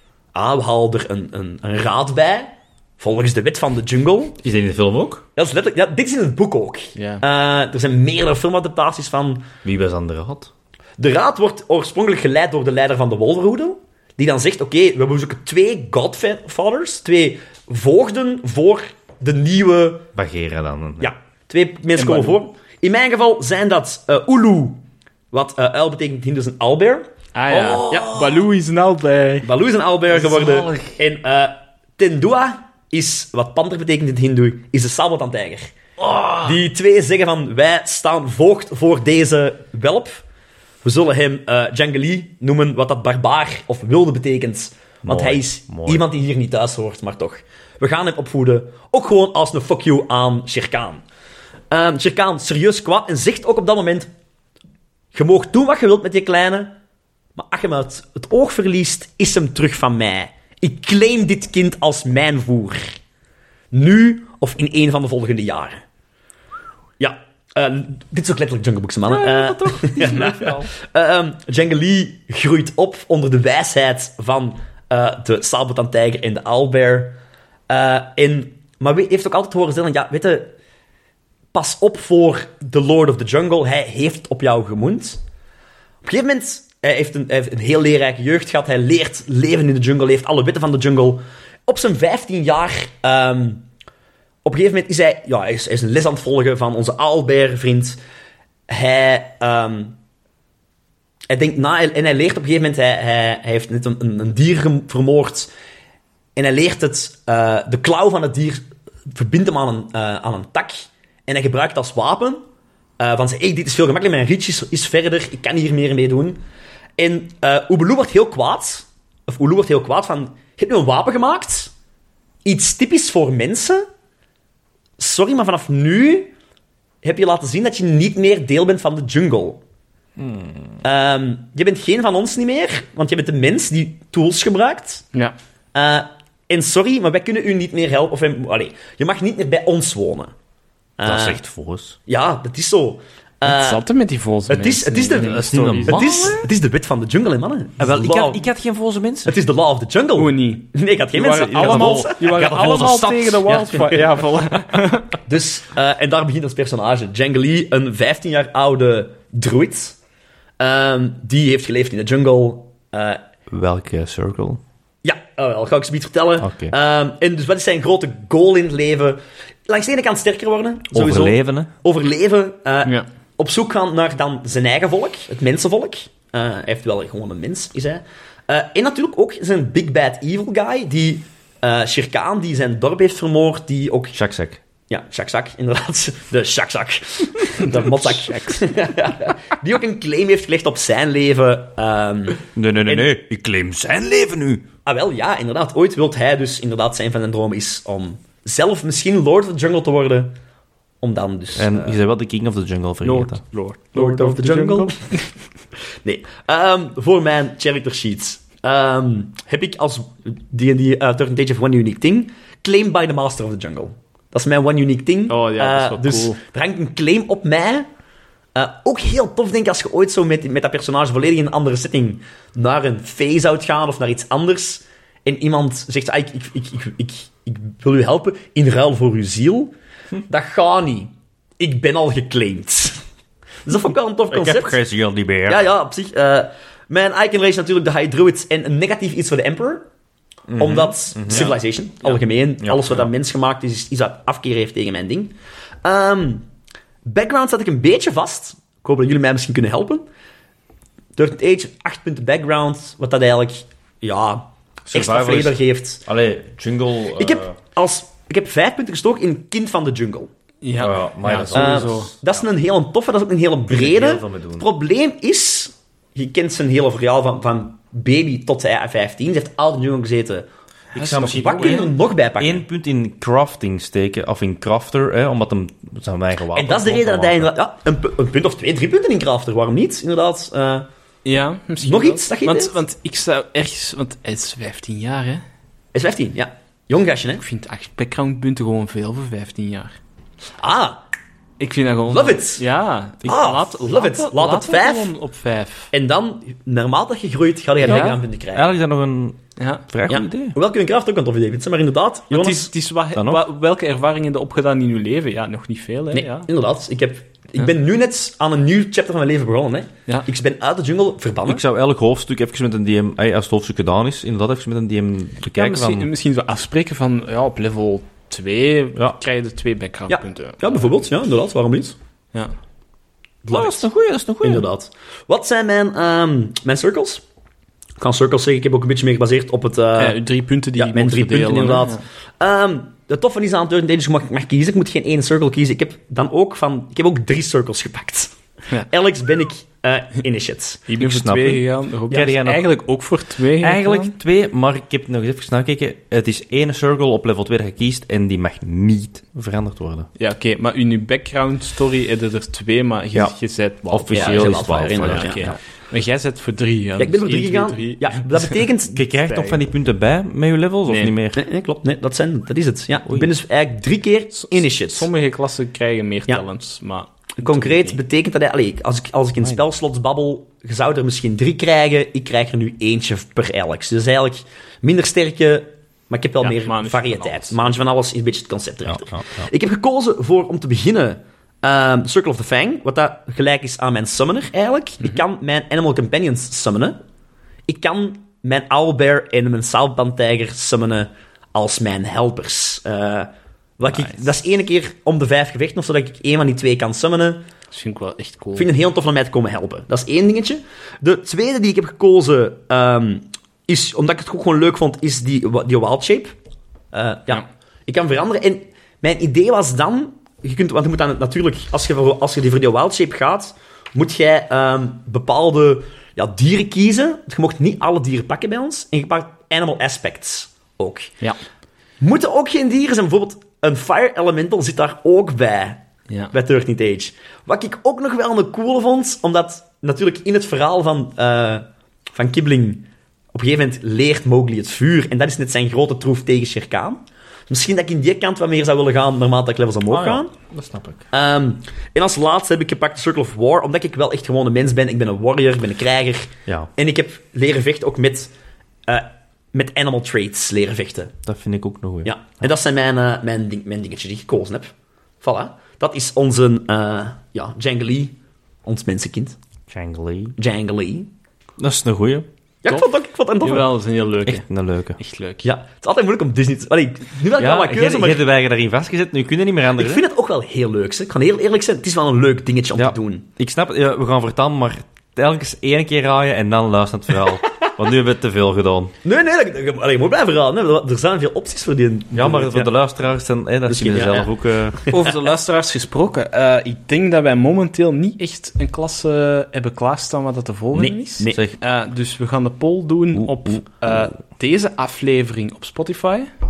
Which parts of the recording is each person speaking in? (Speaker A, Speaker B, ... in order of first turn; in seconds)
Speaker A: 0.3-4.4, 5.4-9.5, 11.0-20.1, 21.0-27.1, 27.6-28.2, 29.4-35.7, 36.4-40.2, 40.8-51.0, 51.7-54.1, 55.1-56.8, 57.4-62.9, 63.7-65.8, 67.0-77.2, 77.7-80.5, 81.5-85.2, 86.0-93.7, 94.4-98.0, 98.7-100.0, 101.3-105.5, 106.4-112.4, 113.0-116.4, 117.0-121.7, 122.5-123.9, 125.0-126.3, 127.0-129.6, 130.8-135.1, 135.7-140.3, 141.0-141.4, 142.1-143.8, 144.5-148.4, 149.2-152.2, 153.5-154.1, 155.2-160.0, 160.6-163.2, 165.0-184.2, 184.9-193.1, 194.8-200.3, 201.0-202.0, 203.9-205.1, 206.0-217.9, 218.6-229.7, 230.3-233.0, 233.7-234.8, 235.5-239.9, 240.6-246.5, 247.1-250.1, 251.2-256.0, 257.2-260.3, 261.5-270.5, 271.2-272.6, 276.5-280.9, 281.8-282.8, 285.9-287.4, 290.6-291.0, 292.1-292.6, 293.2-295.1, 295.9-298.7, 300.1-302.7, 306.1-311.6, 320.1-322.0, 323.4-323.9, 324.4-327.2, 328.0-330.2, 330.8-338.3, 338.9-340.9, 354.1-355.6, 357.0-359.1, 361.4-365.1, 367.4-387.0, 387.7-397.4, 398.6-406.4, 406.9-421.1, 422.0-440.3, 441.1-448.3, 448.9-451.1, 452.1-459.4, 460.4-461.1, 462.6-463.7, 465.4-468.2, 469.8-473.3, 479.0-482.7, 483.7-484.9, 490.7-491.4
Speaker B: 4.4-5.3, 9.6-10.5, 20.1-21.1, 27.5-28.4, 30.1-31.0, 36.0-36.6, 45.0-46.0, 69.1-70.7, 130.2-130.8, 141.0-142.0, 145.1-146.5, 147.8-149.4, 151.5-153.9, 163.5-164.6, 166.4-166.7, 170.9-171.7, 184.1-184.6, 192.6-194.6, 201.6-203.4, 234.3-235.6, 240.5-243.1, 254.9-257.5, 260.8-262.4, 263.7-264.7, 270.9-277.5, 298.5-300.6, 303.1-303.4, 311.5-316.1, 323.5-324.7, 341.0-342.8, 343.6-350.1, 353.9-355.6, 358.9-361.4, 378.9-379.5, 439.9-441.1, 451.2-452.1, 459.7-460.4, 461.6-462.3, 464.2-465.0, 467.4-470.0, 472.8-478.9, 482.1-484.8
Speaker C: 7.0-7.2, 21.9-22.4, 27.4-29.5, 69.8-70.5, 143.4-146.3, 150.2-155.2, 187.7-188.6, 203.0-205.2, 215.3-216.4, 260.6-262.1, 270.9-271.9, 281.2-285.4, 287.4-290.0, 291.6-295.9, 297.8-298.2, 299.6-299.9, 302.3-306.5, 315.5-320.9, 330.0-332.0, 340.9-344.1, 350.2-358.6, 359.2-359.6, 360.9-361.1, 364.4-368.0, 376.4-377.7, 397.7-398.7, 463.4-464.5, 465.0-465.4, 484.9-496.3